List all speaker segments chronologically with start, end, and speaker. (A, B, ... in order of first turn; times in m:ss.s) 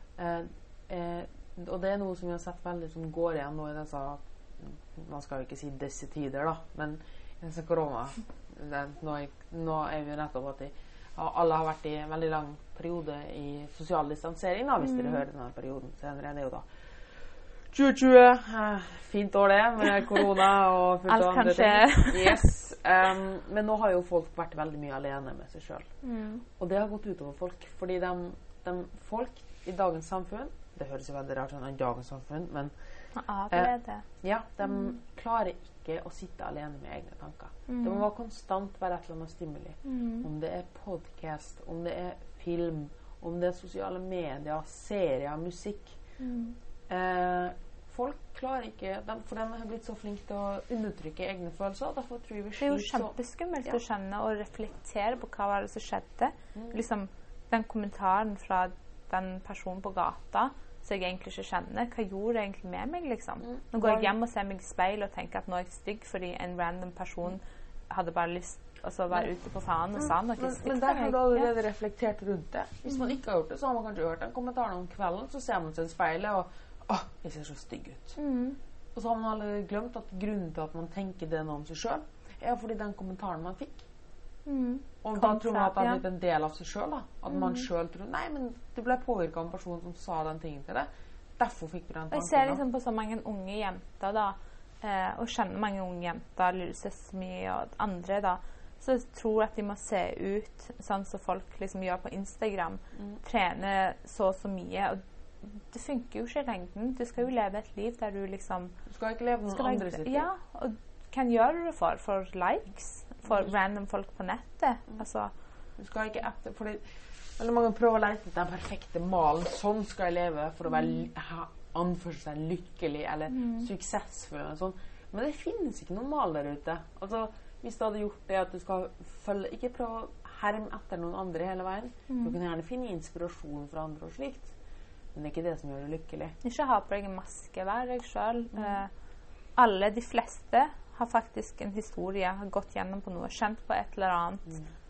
0:00.2-0:25.9 A
0:14.8-0:15.2 B
0:21.1-0:22.4 B
0:26.0-0:26.4 B
0:26.6-0:46.0 A
0:33.1-0:34.0 B
0:37.7-0:38.0 B
0:39.8-0:40.3 B
0:46.2-0:46.6 B
0:46.9-0:53.1 A
0:52.6-1:11.5 B
1:03.4-1:04.1 A
1:10.0-1:18.2 A
1:18.2-1:18.6 B
1:18.9-1:23.8 A
1:24.4-1:26.0 B
1:25.0-1:32.6 A
1:27.3-1:27.6 B
1:32.1-1:48.7 B
1:48.9-1:50.3 A
1:49.5-1:55.3 B
1:55.8-2:14.5 A
2:03.3-2:03.6 B
2:12.1-2:12.3 B
2:15.1-2:16.4 A
2:16.4-2:18.9 B
2:19.6-2:24.5 B